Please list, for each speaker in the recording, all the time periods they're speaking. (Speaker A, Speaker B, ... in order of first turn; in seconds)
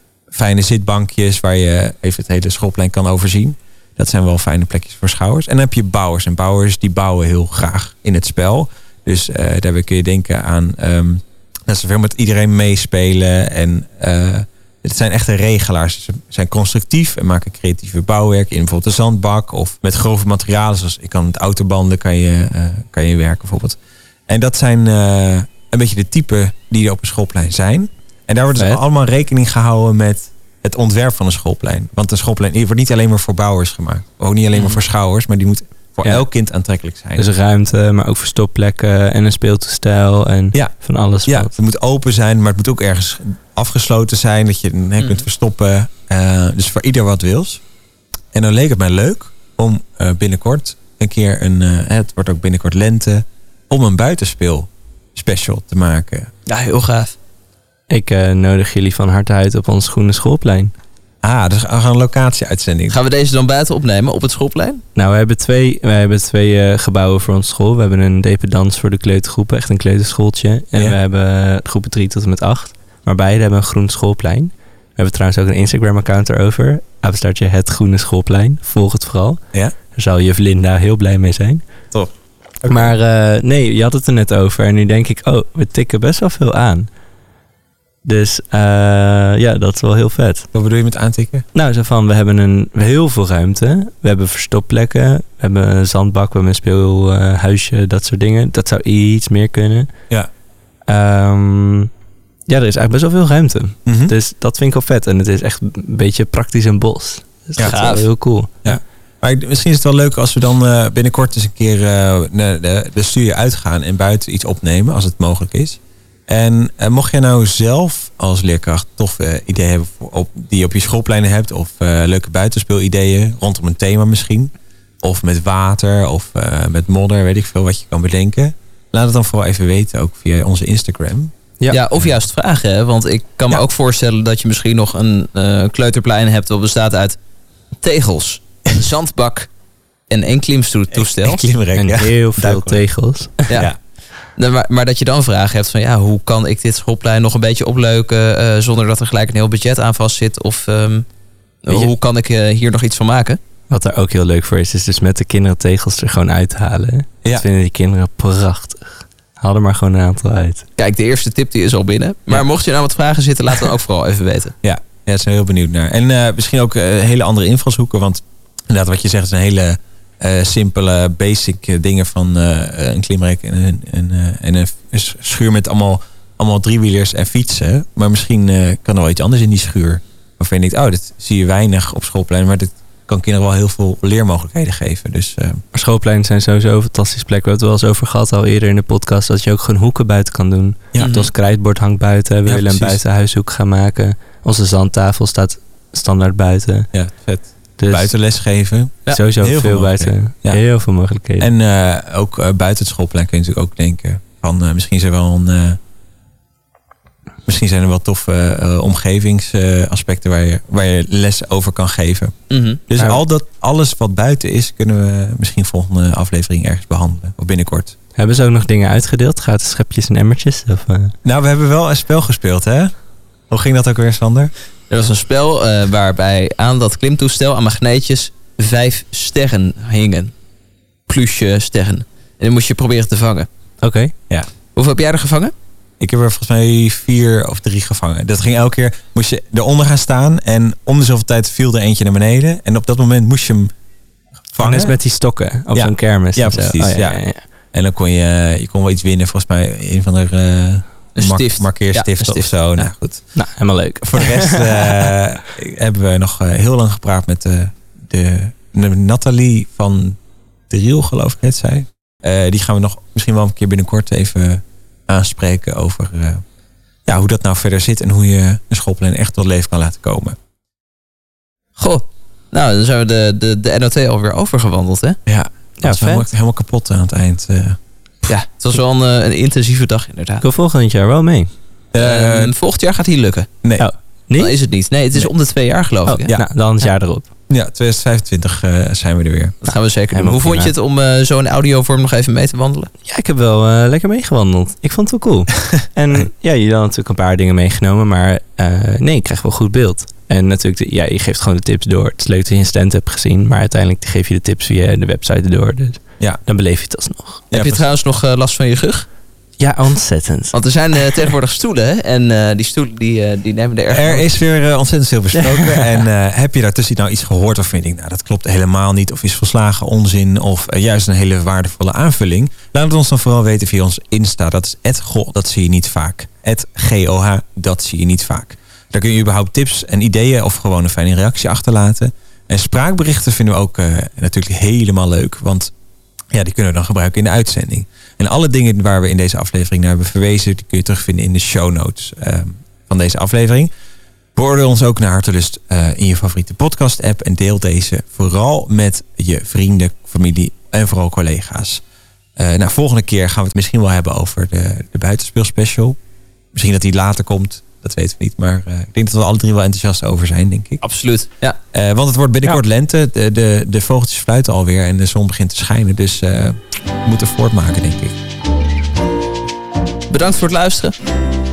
Speaker A: 0.3-37.2, 41.2-47.6, 48.3-56.3, 61.2-63.0, 81.9-82.9, 90.5-91.4, 103.8-104.1, 108.6-131.3, 140.9-142.8, 164.6-185.6, 192.4-193.0, 196.9-200.6, 201.4-205.8, 207.4-212.3, 212.9-217.9, 221.2-222.9, 223.5-224.5, 236.0-243.7, 244.5-245.0, 245.7-247.2, 247.7-253.2, 254.0-260.2, 260.7-266.4, 267.1-270.4, 275.3-277.8, 281.9-282.5, 287.5-289.6, 307.5-307.8, 313.9-335.7, 336.3-343.7, 344.3-351.8, 352.4-355.9, 356.5-360.8, 361.7-368.2
Speaker B: 34.5-34.8, 56.5-57.1, 62.9-64.8, 107.6-108.0, 131.7-137.2, 137.8-139.5, 140.1-141.4, 144.3-151.1, 151.6-153.4, 160.8-164.5, 191.0-191.3, 212.5-212.8, 224.9-230.3, 231.1-233.5, 234.7-235.5, 251.2-252.9, 271.8-275.2, 278.2-280.4, 282.0-283.5, 284.4-286.3, 289.6-292.9, 307.5-309.1, 310.5-314.3, 360.8-361.6, 370.1-370.9
Speaker C: 37.2-41.5, 57.9-60.7, 65.0-79.4, 79.9-81.6, 82.7-86.9, 88.0-90.5, 91.5-99.9, 100.9-101.9, 102.5-108.8, 141.8-143.5, 153.7-160.7, 185.7-196.9, 197.8-198.1, 199.1-201.5, 218.2-221.1, 233.8-234.1, 244.6-247.4, 253.3-255.1, 275.8-276.3, 280.4-281.5, 283.8-284.6, 286.1-287.3, 290.1-290.7, 293.0-307.4, 309.6-310.6, 315.4-316.0